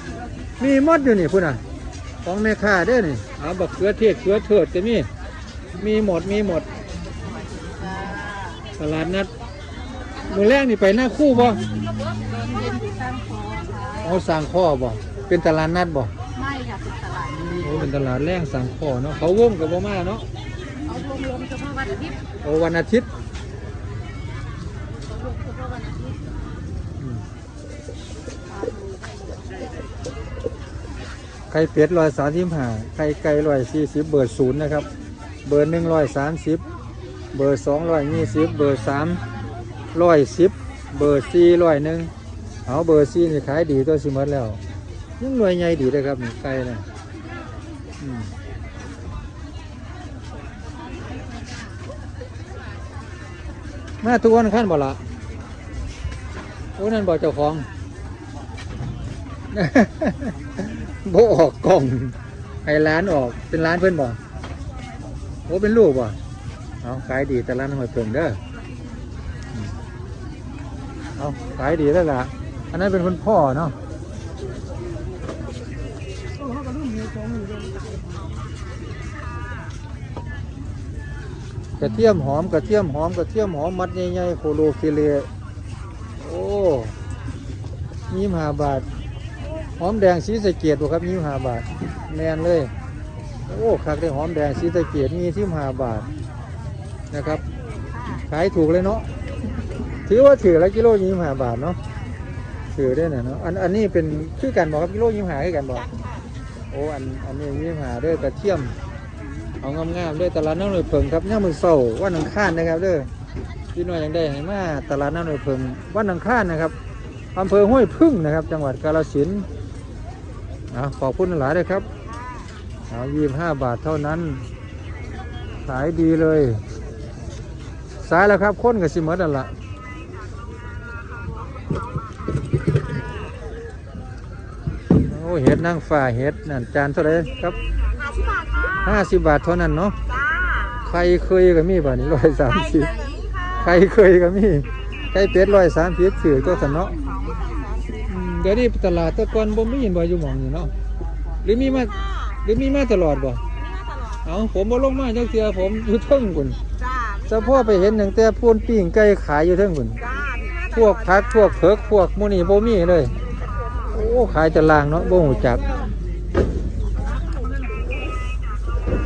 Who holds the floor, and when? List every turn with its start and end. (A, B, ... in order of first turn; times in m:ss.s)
0:00.6-0:01.6 A
0:02.2-0:05.1 A
0:05.8-0:06.7 A
0:08.8-0:09.3 A
0:10.3-0:11.6 A
0:12.2-0:14.0 B
0:14.0-0:16.1 A
0:16.4-0:17.7 B
0:17.6-0:20.3 A
0:20.9-0:22.2 B
0:22.4-0:23.1 A
0:25.1-0:26.2 B
0:27.0-0:27.2 A
0:28.5-0:28.9 B
0:31.5-0:34.9 A
0:35.4-0:36.6 A
0:37.3-0:39.2 A
0:39.9-0:42.1 A
0:42.7-0:44.6 A
0:45.2-0:46.8 A
0:48.0-0:48.3 A
0:54.0-0:55.0 A
0:56.8-0:57.7 A
0:59.5-1:04.2 A
1:05.5-1:06.2 A
1:06.8-1:08.4 A
1:11.2-1:13.8 A
1:21.8-1:25.3 A
1:26.2-1:27.0 A
1:28.1-1:28.9 A
1:29.8-1:32.7 A
1:33.5-1:36.1 A
1:37.1-1:37.4 A
1:38.3-1:39.1 A
1:40.1-1:41.8 A
1:42.7-1:45.9 A
1:46.7-1:48.7 A
1:49.6-1:53.1 A
1:53.7-1:56.7 A
1:57.4-1:59.5 A
2:00.7-2:01.9 A
2:02.9-2:04.4 A
2:05.6-2:06.6 A
2:08.0-2:09.5 A
2:15.1-2:17.6 A
2:18.1-2:18.7 B
2:18.8-2:20.0 A
2:20.2-2:20.7 B
2:20.8-2:22.9 A
2:22.7-2:23.7 B
2:23.6-2:27.0 A
2:27.0-2:27.7 B
2:28.0-2:30.7 A
2:31.4-2:33.4 A
2:33.7-2:34.1 B
2:34.2-2:36.6 A
2:36.9-2:37.2 B
2:37.3-2:40.0 A
2:40.2-2:40.5 B
2:40.7-2:43.2 A
2:43.9-2:45.8 A
2:47.1-2:47.6 B